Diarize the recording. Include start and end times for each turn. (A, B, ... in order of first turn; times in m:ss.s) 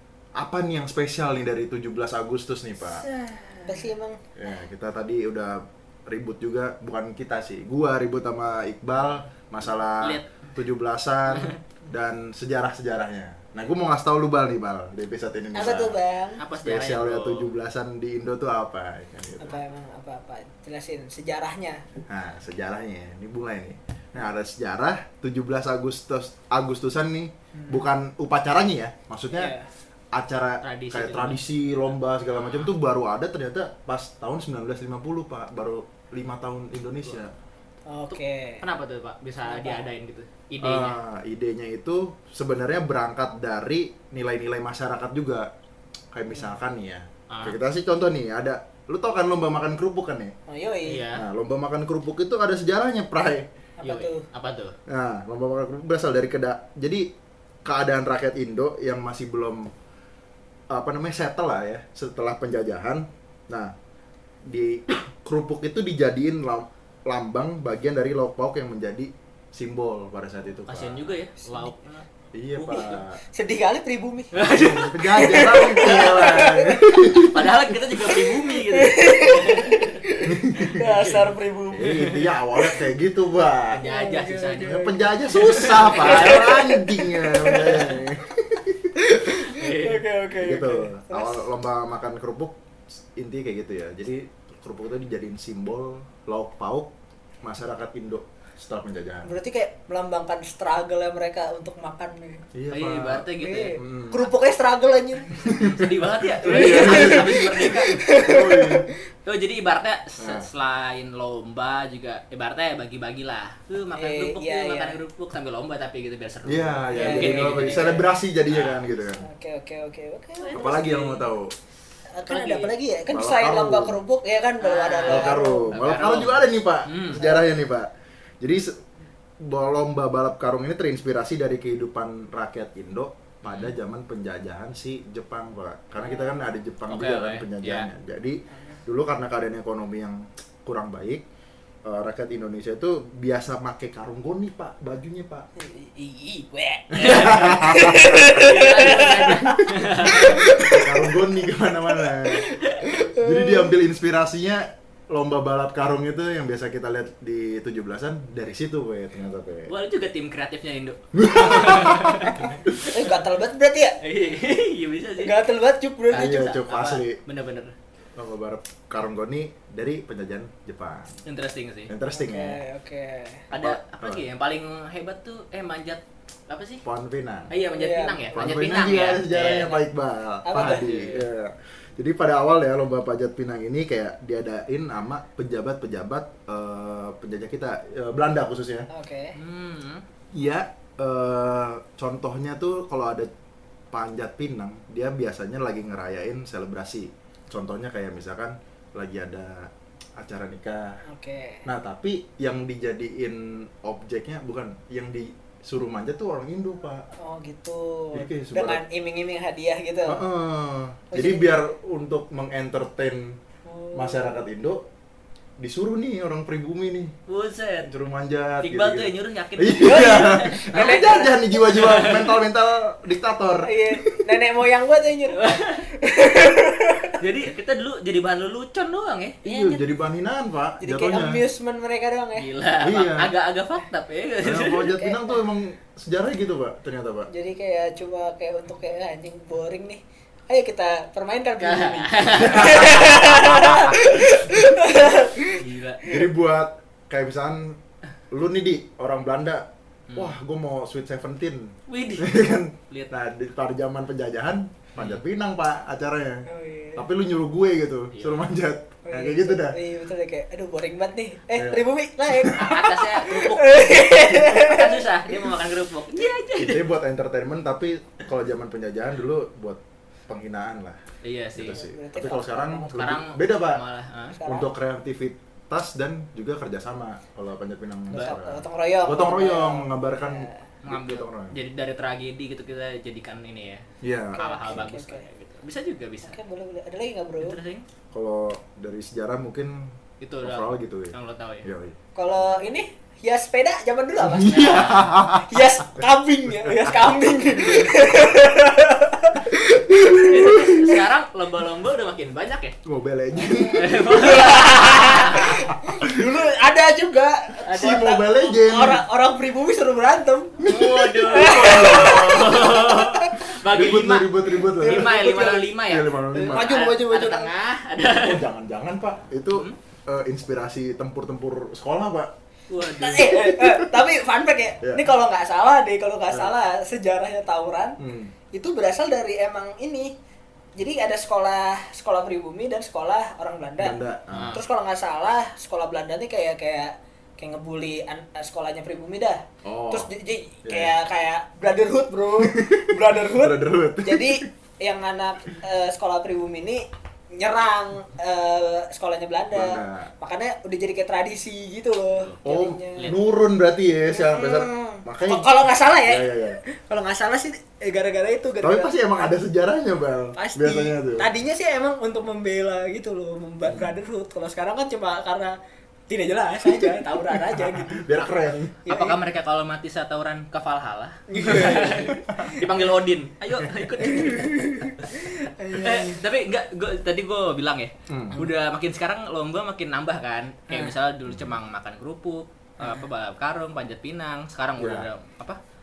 0:00.4-0:03.0 A
0:03.0-0:03.7 B
0:03.6-0:04.2 C
0:04.4-0:16.0 A
0:10.0-0:10.3 B
0:11.3-0:11.6 B
0:15.5-0:16.4 C
0:16.4-0:17.5 B
0:16.6-0:19.6 A
0:19.4-0:21.8 C
0:22.1-0:29.5 A
0:27.5-0:27.8 C
0:29.3-0:29.6 C
0:30.1-0:37.3 A
0:30.6-0:31.4 B
0:32.3-0:32.7 B
0:37.9-0:38.6 C
0:38.1-0:41.0 B
0:39.4-0:39.8 C
0:40.6-0:45.5 A
0:46.1-0:50.3 A
0:47.3-0:47.6 B
0:50.5-0:51.1 C
0:50.9-0:51.2 B
0:51.1-0:53.5 A
0:53.8-0:54.2 C
0:53.8-0:54.7 B
0:54.9-0:57.1 A
0:57.6-0:59.7 A
1:00.7-1:03.7 A
1:04.5-1:11.0 A
1:10.7-1:12.0 B
1:12.3-1:13.2 A
1:12.6-1:13.0 B
1:13.3-1:14.3 C
1:14.3-1:16.1 B
1:14.5-1:17.5 A
1:15.1-1:17.1 C
1:17.1-1:20.0 B
1:18.0-1:22.0 C
1:20.2-1:20.8 A
1:20.7-1:21.3 B
1:21.7-1:23.8 A
1:21.8-1:22.2 B
1:23.7-1:24.8 B
1:23.8-1:28.0 C
1:24.6-1:29.4 A
1:25.3-1:26.7 B
1:29.1-1:31.4 C
1:29.5-1:30.0 B
1:30.4-1:32.6 A
1:33.1-1:36.9 A
1:37.4-1:39.3 A
1:39.2-1:42.4 C
1:42.5-1:44.3 A
1:42.7-1:43.7 B
1:43.4-1:45.3 C
1:45.4-1:48.0 B
1:45.4-1:48.9 A
1:46.4-1:48.8 C
1:49.2-1:58.8 B
1:50.2-1:50.5 A
1:53.9-1:55.0 C
1:56.4-1:59.3 A
1:56.9-1:57.9 C
1:59.2-2:00.6 C
2:00.4-2:01.3 B
2:00.5-2:01.5 A
2:02.2-2:05.8 C
2:02.3-2:02.7 B
2:03.1-2:04.0 A
2:04.6-2:07.2 B
2:05.0-2:08.8 A
2:07.2-2:07.5 C
2:09.4-2:21.2 A
2:13.4-2:13.7 B
2:16.9-2:17.9 B
2:21.8-2:25.5 A
2:25.6-2:31.3 C
2:26.9-2:39.7 A
2:27.0-2:30.4 B
2:32.0-2:33.7 C
2:39.7-2:42.6 B
2:41.1-2:42.9 A
2:42.9-2:44.0 C
2:44.0-2:45.3 B
2:45.2-2:46.6 C
2:46.1-2:47.2 A
2:46.1-2:47.7 B
2:48.2-2:51.2 A
2:51.2-2:51.9 B
2:51.9-2:52.6 A
2:52.1-2:53.4 C
2:53.5-2:54.2 A
2:53.5-2:56.8 B
2:56.8-2:57.5 A
2:57.5-2:59.8 B
2:57.8-2:58.3 C
2:58.3-3:08.9 A
3:00.4-3:00.9 C
3:00.6-3:01.2 B
3:08.9-3:09.3 C
3:09.3-3:10.0 B
3:10.3-3:13.3 A
3:13.9-3:21.0 A
3:21.0-3:21.6 C
3:21.6-3:27.0 A
3:27.2-3:30.2 C
3:28.1-3:28.8 A
3:30.0-3:33.4 A
3:31.1-3:31.6 C
3:33.6-3:34.4 C
3:33.9-3:34.8 A
3:35.6-3:37.1 A
3:37.3-3:37.9 B
3:37.8-3:44.2 A
3:38.6-3:41.2 B
3:39.8-3:41.6 C
3:41.7-3:42.3 B
3:43.6-3:47.2 C
3:45.3-3:45.9 B
3:47.2-3:49.7 B
3:49.4-3:51.4 A
3:50.8-3:52.5 C
3:52.4-3:54.9 B
3:52.8-3:53.3 A
3:54.4-3:57.3 A
3:55.0-3:55.4 C
3:57.3-4:06.2 C
4:01.6-4:03.6 B
4:02.4-4:04.2 A
4:05.6-4:06.0 B
4:06.0-4:07.8 A
4:08.3-4:19.8 A
4:10.1-4:10.3 B
4:11.9-4:12.3 B
4:15.0-4:15.2 B
4:16.5-4:17.0 C
4:18.1-4:18.4 B
4:19.1-4:25.0 C
4:21.6-4:22.5 A
4:22.5-4:26.8 B
4:26.6-4:31.0 A
4:31.2-4:31.8 B
4:31.6-4:33.8 A
4:31.6-4:33.2 C
4:33.0-4:34.4 B
4:34.3-4:34.7 C
4:34.4-4:41.5 A
4:38.1-4:40.6 C
4:40.8-4:46.4 B
4:44.0-4:44.9 A
4:44.4-4:45.2 C
4:46.2-4:47.6 C
4:47.4-4:47.8 B
4:48.1-4:49.9 A
4:50.2-4:51.7 B
4:50.4-4:52.0 A
4:52.2-4:54.9 C
4:54.2-4:55.6 A
4:54.4-4:55.2 B
4:55.5-5:00.9 C
4:56.9-4:58.1 B
4:59.9-5:00.9 A
5:00.2-5:02.8 B
5:02.8-5:04.2 A
5:03.7-5:05.7 B
5:04.1-5:10.6 C
5:05.7-5:06.2 A
5:07.6-5:08.1 B
5:07.7-5:09.0 A
5:10.6-5:12.9 A
5:10.6-5:18.4 B
5:11.2-5:13.3 C
5:13.6-5:16.8 A
5:16.3-5:17.5 C
5:18.1-5:22.3 A
5:22.7-5:23.5 B
5:22.8-5:28.0 C
5:23.4-5:23.9 A
5:24.8-5:25.1 A
5:28.0-5:28.3 A
5:28.5-5:30.1 C
5:30.8-5:34.0 C
5:33.8-5:34.6 A
5:34.3-5:34.6 B
5:34.5-5:53.1 C
5:39.6-5:40.1 A
5:40.6-5:40.9 A
5:42.4-5:44.5 A
5:49.5-5:50.1 A
5:52.4-5:55.5 A
5:54.1-5:59.0 C
5:56.0-5:56.6 A
5:58.6-6:01.3 A
6:00.4-6:05.6 C
6:03.6-6:03.9 A
6:06.1-6:08.1 C
6:07.3-6:08.8 A
6:08.8-6:09.2 C
6:08.9-6:25.6 B
6:11.3-6:12.6 C
6:12.1-6:12.6 A
6:14.0-6:16.2 C
6:18.1-6:18.4 A
6:21.3-6:21.5 A
6:24.8-6:25.1 A